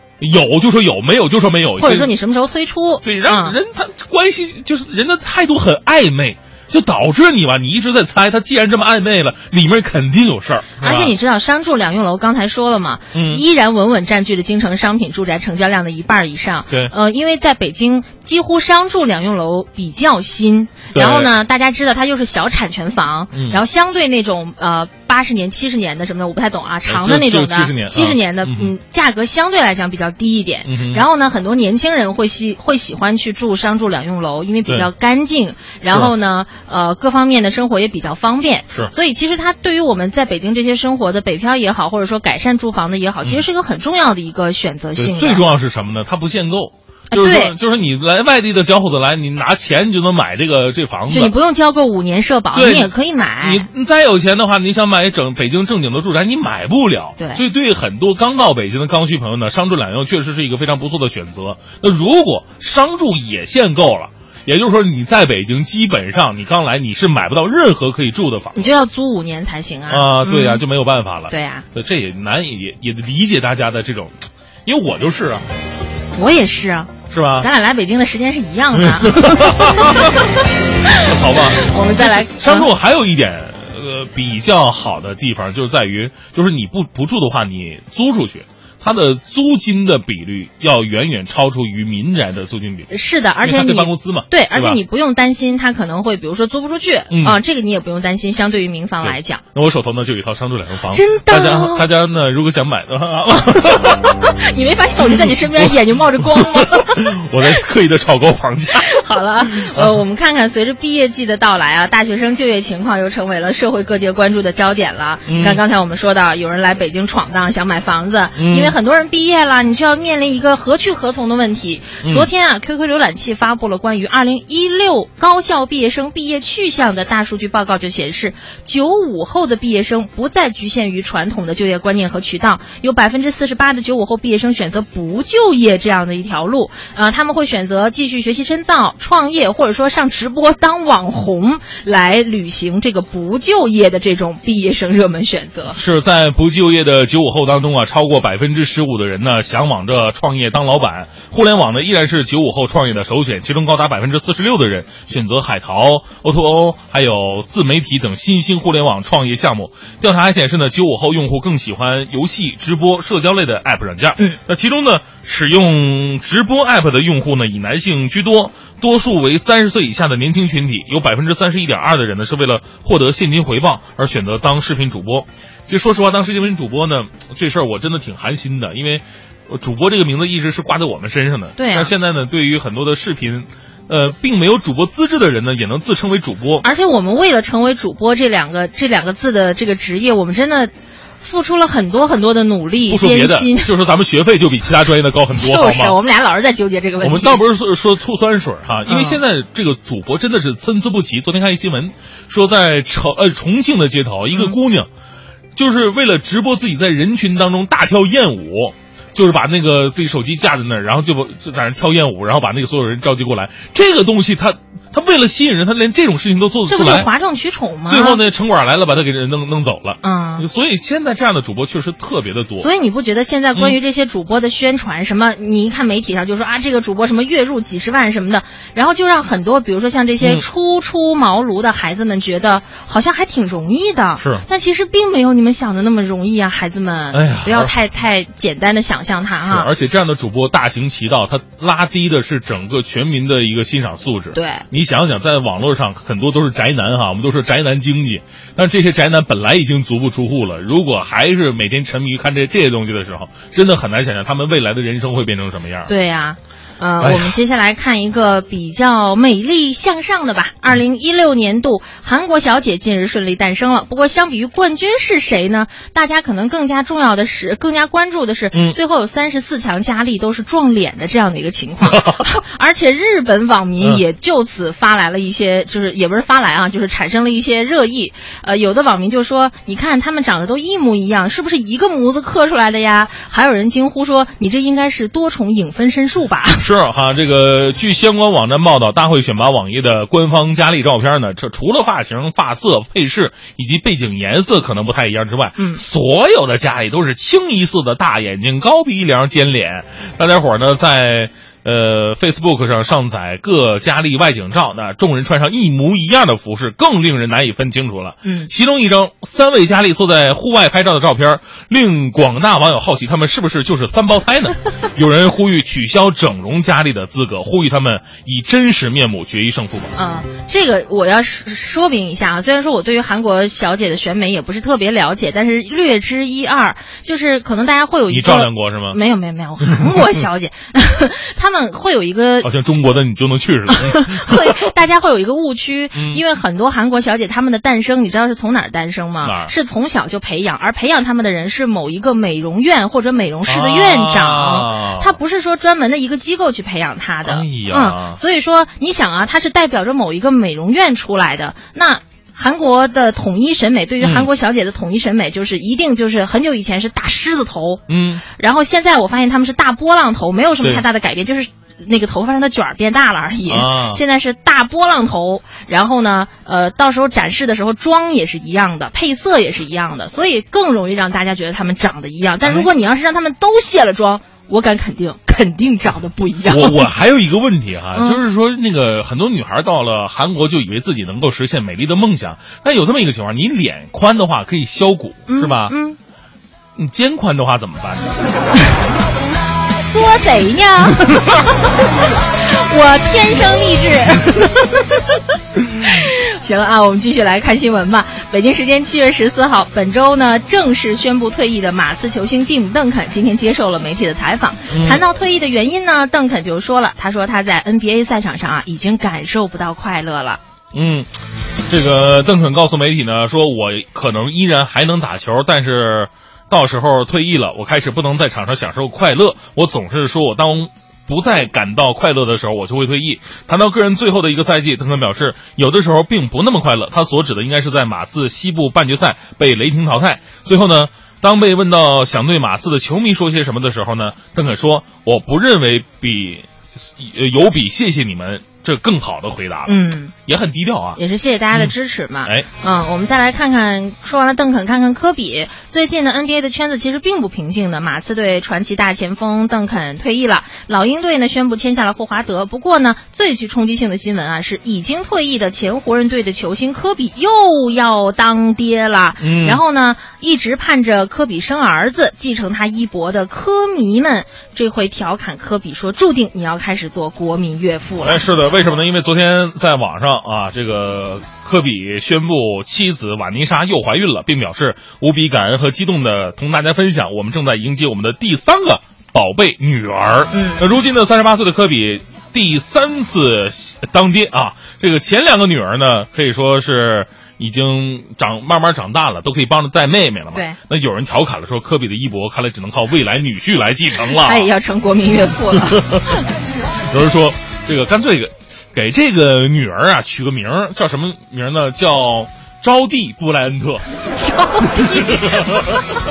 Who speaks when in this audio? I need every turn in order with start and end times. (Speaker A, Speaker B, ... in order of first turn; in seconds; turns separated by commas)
Speaker A: 0.2-2.1, Speaker B: 1.8-3.6, Speaker A: 3.0-11.1, Speaker B: 10.8-45.4, Speaker A: 13.1-13.4, Speaker A: 20.9-21.3, Speaker A: 23.3-23.6, Speaker A: 26.9-28.7, Speaker A: 30.6-31.0, Speaker A: 45.0-51.3, Speaker B: 47.1-47.5, Speaker B: 51.1-53.7, Speaker A: 52.5-68.6, Speaker B: 57.2-57.4, Speaker B: 68.5-70.6, Speaker A: 69.9-75.4, Speaker B: 71.3-71.6, Speaker B: 76.1-82.7, Speaker A: 77.1-77.5, Speaker A: 78.8-80.2, Speaker A: 81.0-92.9, Speaker B: 92.9-99.4, Speaker A: 93.4-94.8, Speaker A: 97.1-97.4, Speaker A: 99.0-104.1, Speaker B: 100.9-101.8, Speaker B: 103.9-107.4, Speaker A: 106.3-108.9, Speaker B: 108.7-145.8, Speaker A: 109.5-110.0, Speaker A: 115.3-115.6, Speaker A: 118.3-118.7, Speaker A: 122.0-122.3, Speaker A: 145.7-186.7, Speaker B: 181.6-181.9, Speaker B: 186.6-193.7, Speaker A: 192.9-195.9, Speaker B: 195.3-197.4, Speaker A: 197.0-204.9, Speaker B: 198.8-199.2, Speaker A: 205.6-217.1, Speaker B: 216.7-218.2, Speaker A: 217.9-222.7, Speaker B: 220.0-220.5, Speaker B: 222.6-239.7, Speaker A: 230.2-230.4, Speaker A: 234.2-234.4, Speaker A: 237.1-237.7, Speaker A: 239.4-255.9, Speaker B: 244.3-244.7, Speaker B: 255.8-286.7, Speaker A: 257.0-257.4, Speaker A: 268.5-268.8, Speaker A: 271.9-272.2, Speaker A: 286.6-319.9, Speaker B: 295.6-295.8, Speaker B: 308.2-308.5, Speaker B: 319.9-332.5, Speaker A: 328.1-329.0, Speaker A: 329.7-330.0, Speaker A: 332.4-334.5, Speaker B: 333.7-376.9, Speaker A: 335.9-336.2, Speaker A: 339.2-339.5, Speaker A: 343.4-345.1, Speaker A: 347.2-348.2, Speaker A: 354.0-354.3, Speaker A: 357.9-358.2, Speaker A: 363.5-364.0, Speaker A: 372.4-372.7, Speaker A: 376.4-385.7, Speaker B: 377.9-378.2, Speaker B: 385.3-386.0, Speaker A: 386.8-388.1, Speaker B: 389.8-391.8, Speaker B: 392.4-410.4, Speaker A: 404.7-405.0, Speaker A: 410.7-411.1, Speaker A: 411.7-441.0, Speaker B: 439.6-440.1, Speaker B: 440.9-468.2, Speaker A: 459.2-459.6, Speaker A: 468.0-494.5, Speaker B: 480.3-480.6, Speaker B: 490.3-490.6, Speaker B: 494.0-496.3, Speaker A: 495.5-496.2, Speaker A: 496.9-503.9, Speaker B: 504.2-505.7, Speaker A: 504.7-505.9